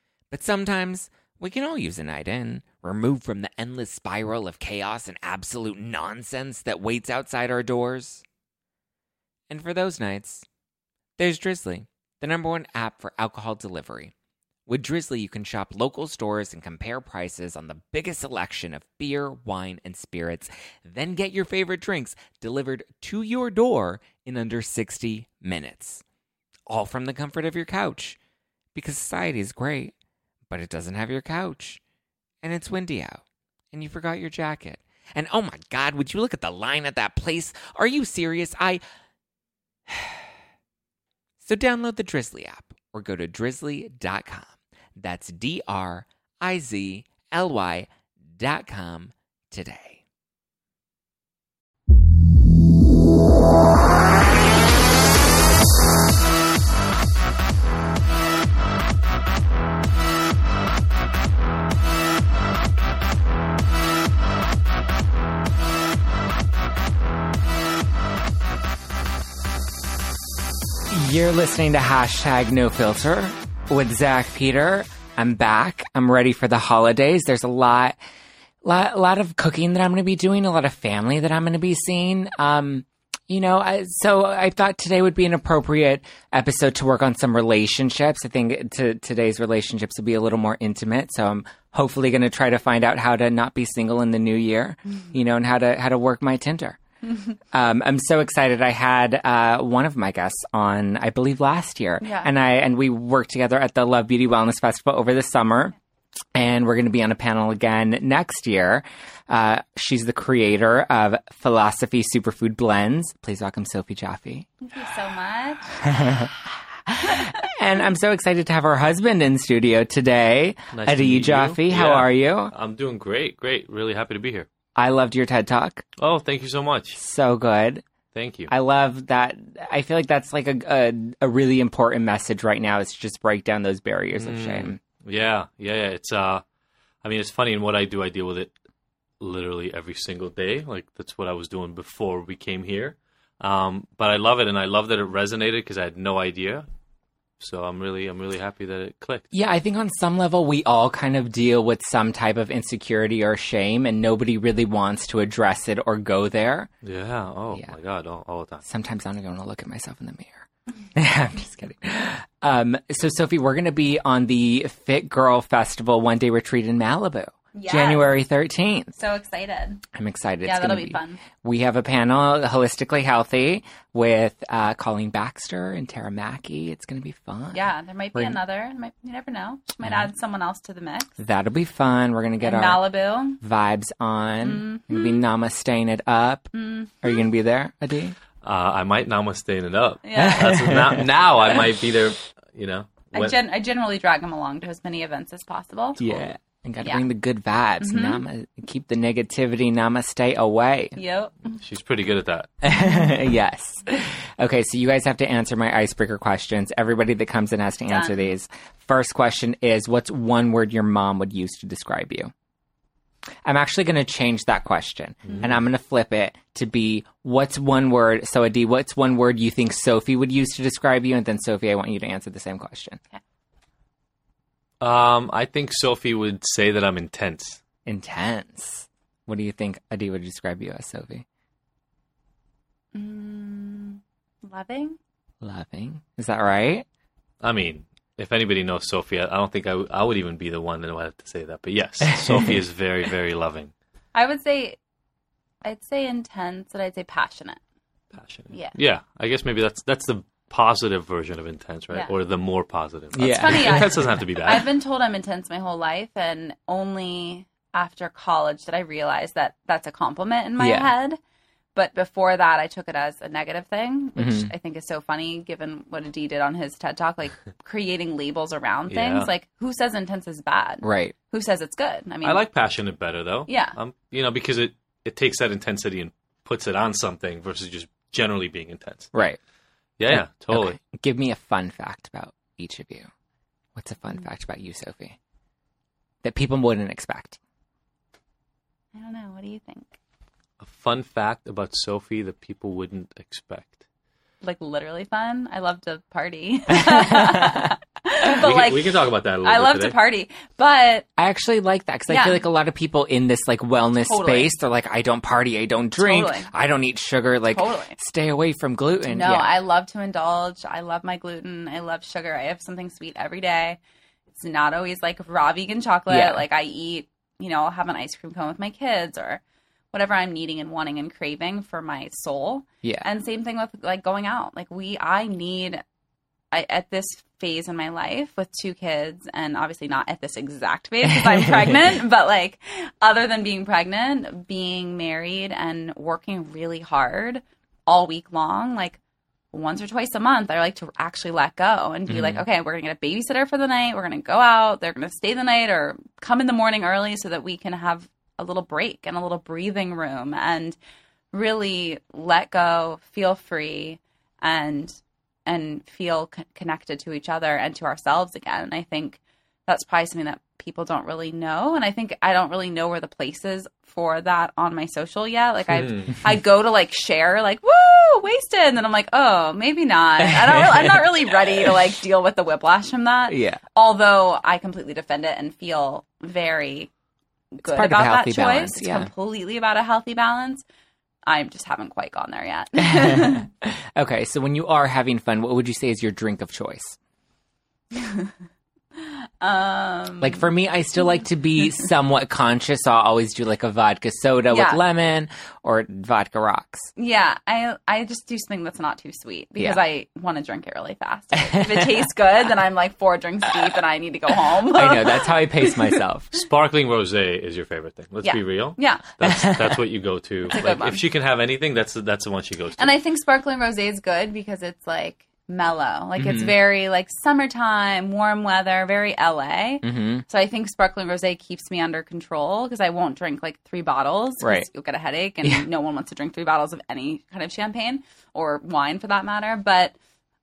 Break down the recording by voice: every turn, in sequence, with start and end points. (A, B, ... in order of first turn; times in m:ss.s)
0:00.3-0:08.2 A
0:09.5-0:10.4 A
0:11.2-0:14.1 A
0:14.7-0:26.0 A
0:26.7-0:28.2 A
0:28.7-0:29.9 A
0:30.5-0:31.8 A
0:32.4-0:33.2 A
0:33.7-0:38.8 A
0:39.9-0:40.3 A
0:41.4-0:50.0 A
1:10.9-1:18.0 A
1:18.6-1:36.8 A
1:37.5-1:45.7 A
1:42.0-1:42.3 B
1:46.3-1:54.5 A
1:54.6-1:56.2 B
1:55.8-1:56.3 A
1:56.9-2:02.5 A
2:00.7-2:04.5 C
2:04.8-2:05.8 A
2:06.0-2:07.0 C
2:07.0-2:07.8 A
2:08.1-2:08.5 C
2:08.5-2:14.8 A
2:14.1-2:16.4 C
2:17.0-2:18.5 C
2:19.2-2:26.6 C
2:27.4-2:29.3 C
2:29.3-2:36.7 A
2:36.8-2:38.6 C
2:38.6-2:49.0 A
2:47.5-2:48.1 B
2:49.0-2:49.8 B
2:49.9-2:58.4 A
2:50.4-2:51.2 B
2:57.5-3:01.2 B
2:59.8-3:00.1 A
3:01.2-3:02.8 A
3:02.4-3:03.4 B
3:03.4-3:06.5 A
3:04.4-3:05.2 B
3:06.5-3:07.2 B
3:07.0-3:08.2 A
3:08.4-3:13.4 C
3:10.0-3:10.6 B
3:10.2-3:11.0 A
3:13.1-3:16.0 B
3:16.0-3:21.0 A
3:17.8-3:18.2 B
3:21.0-3:21.6 B
3:21.6-3:22.5 C
3:22.6-3:32.3 A
3:27.9-3:28.3 B
3:33.4-3:43.0 A
3:35.2-3:35.5 C
3:44.8-3:47.6 C
3:47.8-3:51.2 A
3:52.9-3:55.0 B
3:55.4-3:56.8 A
3:57.4-4:03.7 C
4:04.1-4:04.8 B
4:05.6-4:07.6 B
4:08.1-4:14.6 C
4:13.1-4:14.0 A
4:13.2-4:21.2 B
4:20.6-4:20.9 A
4:21.7-4:32.4 B
4:24.2-4:24.5 A
4:28.9-4:29.3 C
4:30.8-4:31.1 A
4:32.2-4:39.1 C
4:33.5-4:33.7 B
4:39.1-4:39.4 A
4:40.0-4:40.8 C
4:40.1-4:43.1 A
4:43.7-4:45.2 A
4:46.2-4:47.4 A
4:48.9-4:49.9 B
4:50.6-4:53.8 C
4:54.4-5:01.0 B
4:56.9-4:57.6 A
4:58.4-5:00.0 C
5:01.2-5:09.5 A
5:02.1-5:02.4 B
5:04.0-5:04.5 B
5:06.0-5:06.5 B
5:07.5-5:08.0 B
5:09.1-5:13.8 B
5:14.3-5:19.4 B
5:16.1-5:16.4 A
5:19.9-5:25.8 B
5:26.5-5:39.0 B
5:39.5-5:50.8 B
5:42.1-5:42.4 A
5:51.3-6:16.9 B
6:05.7-6:06.1 C
6:10.2-6:11.0 A
6:13.3-6:13.6 A
6:17.6-6:20.6 B
6:17.6-6:19.1 A
6:21.2-6:23.5 B
6:22.8-6:27.0 A
6:27.9-6:28.3 B
6:29.0-6:31.2 B
6:30.2-6:36.9 A
6:34.5-6:34.8 B
6:37.0-6:45.7 B
6:41.5-6:41.8 A
6:44.7-6:46.3 A
6:46.3-6:53.0 C
6:48.2-6:49.1 B
6:49.2-6:49.8 A
6:50.5-6:51.0 B
6:52.8-7:09.9 B
6:56.2-6:56.5 A
6:59.8-7:00.2 A
7:04.4-7:04.7 A